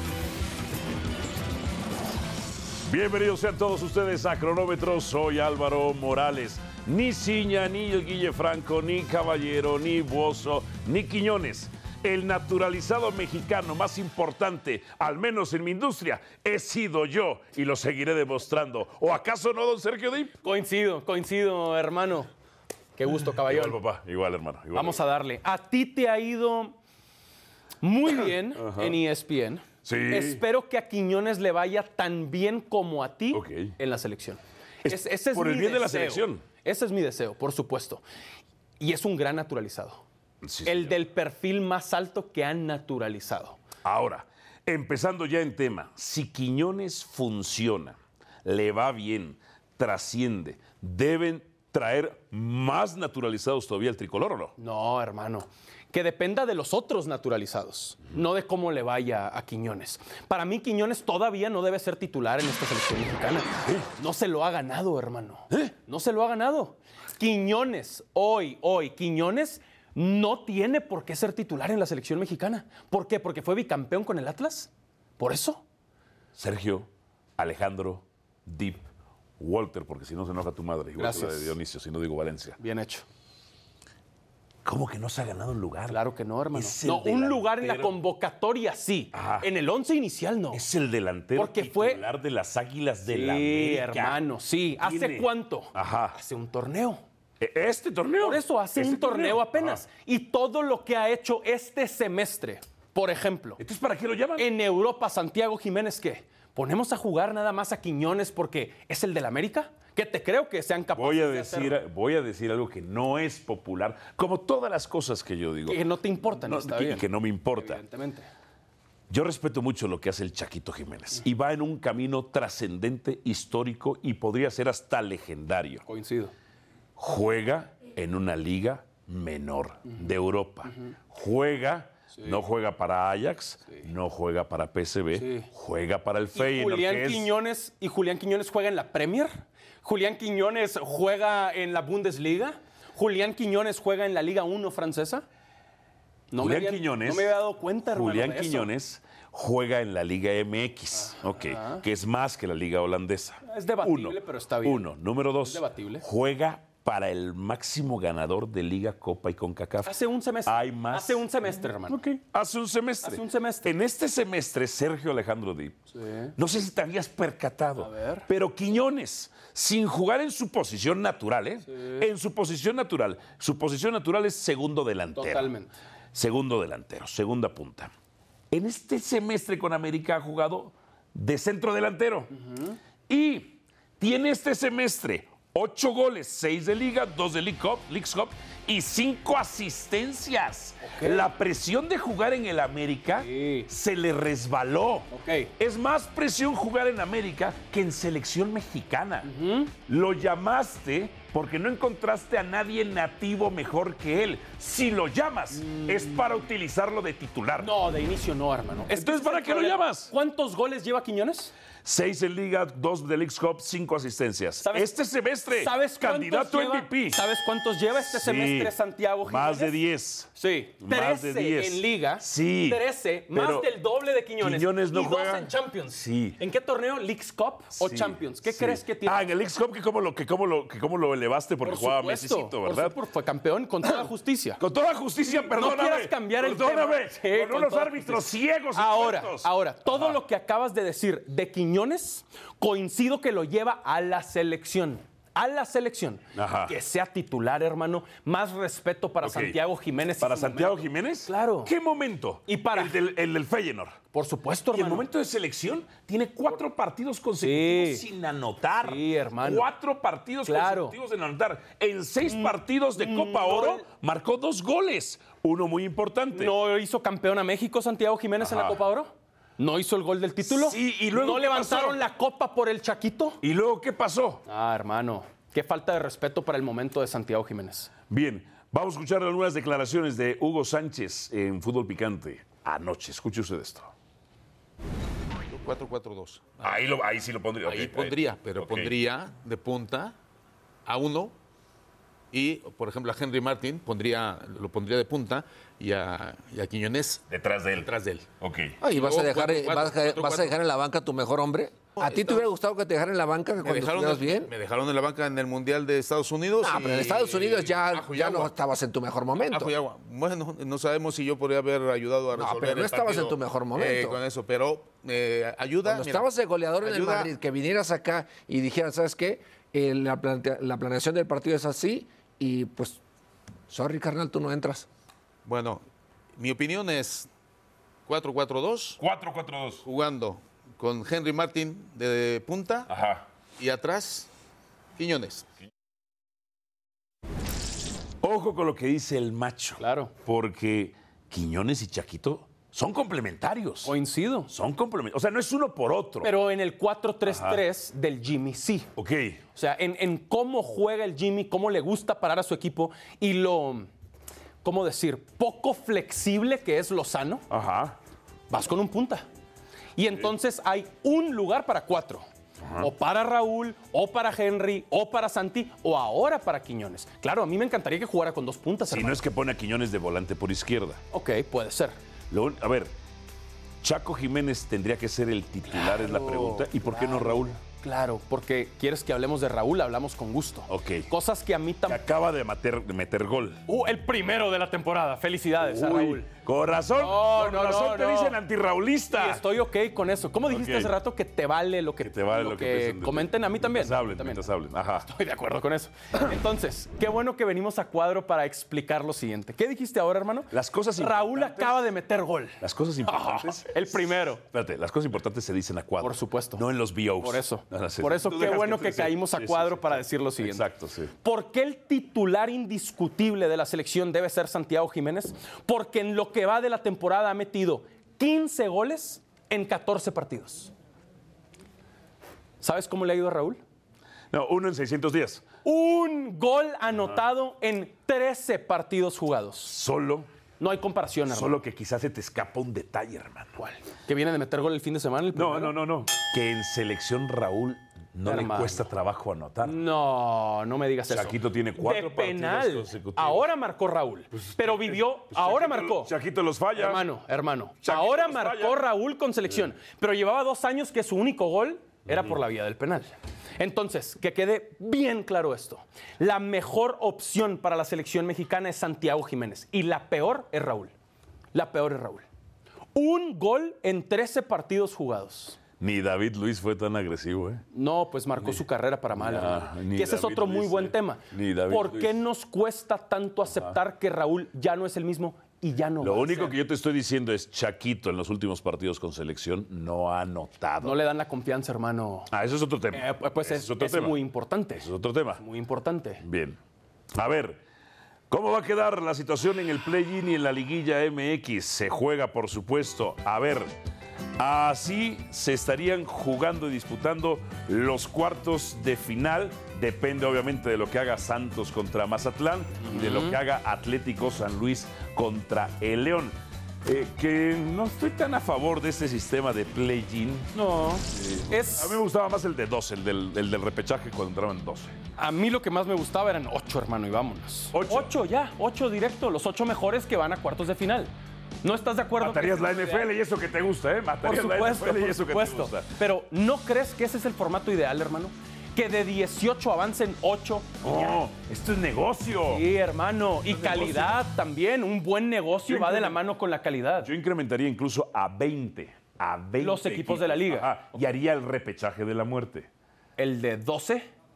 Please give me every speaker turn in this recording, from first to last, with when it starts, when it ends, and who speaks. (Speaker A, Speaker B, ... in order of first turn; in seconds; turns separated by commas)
Speaker A: 2.8-20.4, Speaker B: 20.4-22.3, Speaker B: 23.0-23.8, Speaker A: 23.4-25.0, Speaker B: 24.7-26.8, Speaker B: 27.8-38.0, Speaker A: 28.5-29.0, Speaker A: 29.8-30.4, Speaker A: 33.3-33.7, Speaker A: 34.8-36.4, Speaker B: 38.8-40.0, Speaker A: 40.4-41.0, Speaker B: 40.6-43.6, Speaker A: 43.8-54.5, Speaker B: 54.6-75.6, Speaker A: 76.3-78.9, Speaker A: 79.4-82.6, Speaker B: 81.0-81.5, Speaker B: 82.6-83.0, Speaker A: 84.6-86.0, Speaker B: 85.9-90.6, Speaker A: 86.5-88.0, Speaker A: 89.1-89.5, Speaker A: 90.5-94.2, Speaker B: 91.3-92.0, Speaker B: 93.1-97.0, Speaker A: 94.8-96.2, Speaker A: 97.4-99.8, Speaker B: 98.2-103.6, Speaker A: 103.6-104.5, Speaker B: 104.4-111.7, Speaker A: 110.9-117.8, Speaker B: 115.7-117.0, Speaker B: 117.5-118.3, Speaker A: 119.1-125.8, Speaker B: 125.8-126.3, Speaker A: 127.0-137.3, Speaker B: 130.7-130.9, Speaker B: 135.1-135.5, Speaker B: 136.3-145.2, Speaker B: 146.3-148.7, Speaker A: 146.4-147.3, Speaker A: 147.8-165.8, Speaker B: 151.1-151.8, Speaker B: 153.4-154.8, Speaker B: 155.4-156.0, Speaker B: 159.8-162.0, Speaker B: 163.0-163.7, Speaker B: 165.9-166.3, Speaker A: 166.3-175.5, Speaker B: 167.8-168.3, Speaker B: 171.7-172.1, Speaker B: 175.2-175.7, Speaker A: 176.1-177.9, Speaker A: 178.5-182.3, Speaker B: 182.3-182.8, Speaker A: 183.1-199.3, Speaker B: 190.8-191.3, Speaker B: 193.2-193.7, Speaker B: 195.1-195.5, Speaker B: 199.2-199.7, Speaker A: 199.8-207.7, Speaker B: 205.6-206.2, Speaker B: 207.6-211.5, Speaker A: 208.9-210.1, Speaker A: 211.8-217.2, Speaker B: 214.6-214.9, Speaker B: 215.5-219.7, Speaker A: 218.0-218.7, Speaker A: 219.2-223.7, Speaker B: 220.4-229.2, Speaker A: 224.4-226.4, Speaker A: 227.8-232.9, Speaker B: 231.6-234.6, Speaker A: 234.6-240.2, Speaker B: 235.2-251.7, Speaker A: 246.3-246.7, Speaker A: 249.2-249.6, Speaker A: 250.2-254.0, Speaker B: 252.5-252.9, Speaker B: 254.1-255.1, Speaker A: 254.7-266.5, Speaker B: 257.4-258.0, Speaker B: 258.8-259.6, Speaker B: 260.4-261.0, Speaker B: 262.3-263.8, Speaker B: 266.3-273.4, Speaker A: 268.4-268.8, Speaker A: 270.4-272.0, Speaker A: 273.4-274.4, Speaker B: 274.4-277.9, Speaker A: 278.1-283.9, Speaker C: 285.5-286.8, Speaker A: 286.6-288.9, Speaker C: 287.6-290.1, Speaker C: 290.9-291.3, Speaker C: 292.3-297.2, Speaker A: 297.3-298.8, Speaker C: 297.8-298.2, Speaker C: 298.8-300.6, Speaker D: 298.8-304.5, Speaker C: 301.9-302.5, Speaker C: 303.6-308.6, Speaker D: 306.6-309.7, Speaker C: 309.4-316.3, Speaker D: 312.3-314.2, Speaker D: 315.8-323.0, Speaker C: 316.8-317.3, Speaker D: 323.7-324.9, Speaker C: 325.4-325.8, Speaker C: 326.4-327.3, Speaker C: 328.1-329.0, Speaker A: 329.0-329.8, Speaker C: 329.8-332.9, Speaker A: 332.9-333.2, Speaker C: 333.6-334.3, Speaker C: 335.0-335.4, Speaker A: 338.2-343.9, Speaker B: 339.8-340.1, Speaker B: 343.8-344.5, Speaker A: 344.5-346.3, Speaker B: 346.2-348.9, Speaker A: 347.2-347.6, Speaker A: 348.9-349.4, Speaker B: 349.5-353.9, Speaker B: 354.6-357.4, Speaker A: 357.5-358.0, Speaker B: 358.5-359.2, Speaker B: 359.9-362.2, Speaker A: 362.6-362.9, Speaker B: 362.8-369.2, Speaker A: 368.9-371.0, Speaker B: 371.1-372.0, Speaker A: 372.3-372.9, Speaker A: 373.8-377.6, Speaker B: 375.7-382.0, Speaker A: 380.7-381.1, Speaker A: 381.9-383.6, Speaker B: 383.7-386.3, Speaker A: 385.6-389.4, Speaker B: 386.9-388.4, Speaker B: 389.1-394.4, Speaker A: 390.5-390.9, Speaker A: 392.0-395.1, Speaker B: 395.1-404.4, Speaker A: 400.5-401.8, Speaker A: 402.6-411.1, Speaker B: 406.0-406.6, Speaker B: 407.2-410.6, Speaker B: 411.2-420.7, Speaker B: 422.6-423.6, Speaker A: 424.3-425.4, Speaker B: 425.6-429.7, Speaker A: 429.7-430.3, Speaker B: 430.6-431.6, Speaker A: 431.3-433.6, Speaker B: 433.6-435.7, Speaker A: 435.3-439.8, Speaker B: 438.2-438.8, Speaker B: 439.6-446.1, Speaker A: 441.1-443.5, Speaker A: 444.3-447.0, Speaker B: 446.8-460.9, Speaker A: 447.8-448.8, Speaker A: 452.1-452.3, Speaker B: 461.5-462.2, Speaker B: 462.9-465.6, Speaker A: 465.8-467.6, Speaker B: 467.7-476.6, Speaker A: 469.1-472.2, Speaker A: 473.5-473.8, Speaker A: 476.0-481.0, Speaker B: 480.8-482.3, Speaker A: 482.3-484.2, Speaker B: 482.9-484.9, Speaker A: 484.8-485.4, Speaker B: 485.4-486.2, Speaker A: 486.2-486.6, Speaker A: 487.1-487.6, Speaker A: 488.3-493.7, Speaker A: 494.4-510.5, Speaker B: 502.8-503.4, Speaker B: 510.5-512.0, Speaker A: 511.1-515.0, Speaker B: 515.2-521.1, Speaker A: 517.7-518.1, Speaker B: 521.6-523.1, Speaker A: 522.2-525.9, Speaker B: 524.2-531.2, Speaker A: 530.8-532.6, Speaker B: 532.5-537.1, Speaker A: 533.5-534.2, Speaker A: 535.6-536.2, Speaker A: 537.0-542.7, Speaker B: 539.6-540.8, Speaker B: 543.2-544.1